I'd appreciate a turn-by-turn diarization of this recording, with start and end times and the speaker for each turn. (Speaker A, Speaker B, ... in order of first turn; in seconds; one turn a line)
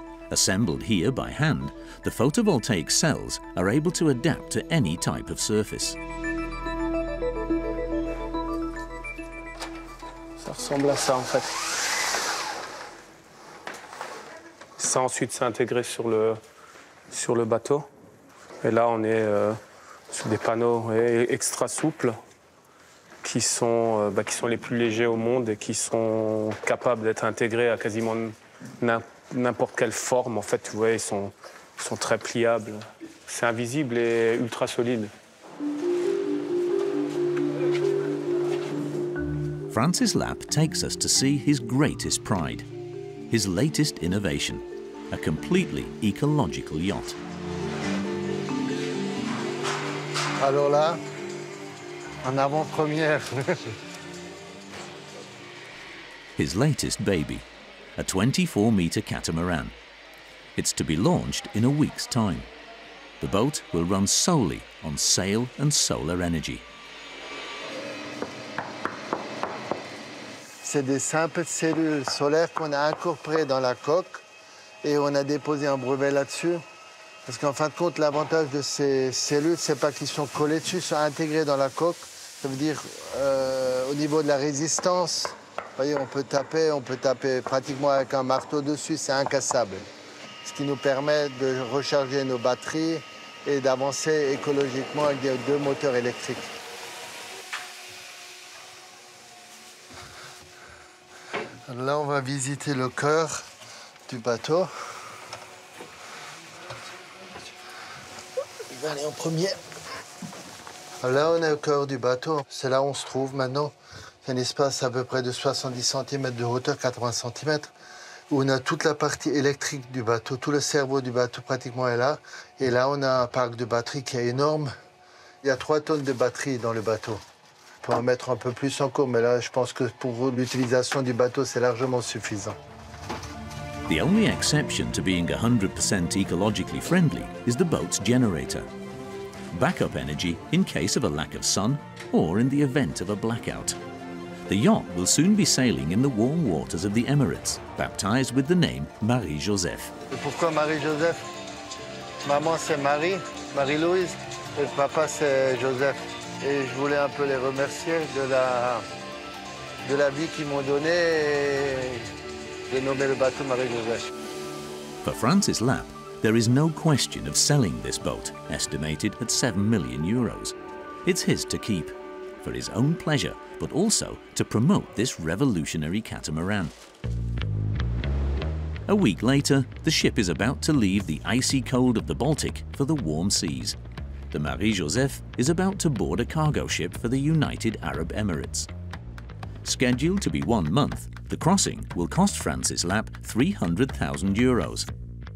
Speaker A: 0.3-6.0
Speaker B: 10.4-11.6
Speaker B: 14.8-16.4
Speaker B: 17.1-17.9
Speaker B: 18.6-19.6
Speaker B: 20.1-22.2
Speaker B: 23.2-35.1
Speaker A: 39.7-42.7
Speaker A: 43.3-47.2
Speaker C: 50.4-51.0
Speaker C: 52.2-53.8
Speaker A: 56.4-57.5
Speaker A: 58.0-59.7
Speaker A: 60.6-62.5
Speaker A: 63.2-66.6
Speaker C: 70.6-74.2
Speaker C: 74.8-76.6
Speaker C: 77.3-89.8
Speaker C: 90.4-96.5
Speaker C: 101.7-103.5
Speaker C: 104.1-104.7
Speaker C: 108.7-109.6
Speaker C: 111.0-117.7
Speaker C: 118.3-124.7
Speaker C: 125.4-127.2
Speaker C: 127.8-132.6
Speaker A: 133.9-138.7
Speaker A: 139.5-143.8
Speaker A: 144.5-149.9
Speaker C: 150.1-151.2
Speaker C: 152.2-158.8
Speaker C: 159.8-162.1
Speaker C: 162.7-164.1
Speaker A: 165.0-176.8
Speaker A: 178.9-183.8
Speaker A: 184.3-188.7
Speaker A: 189.6-194.9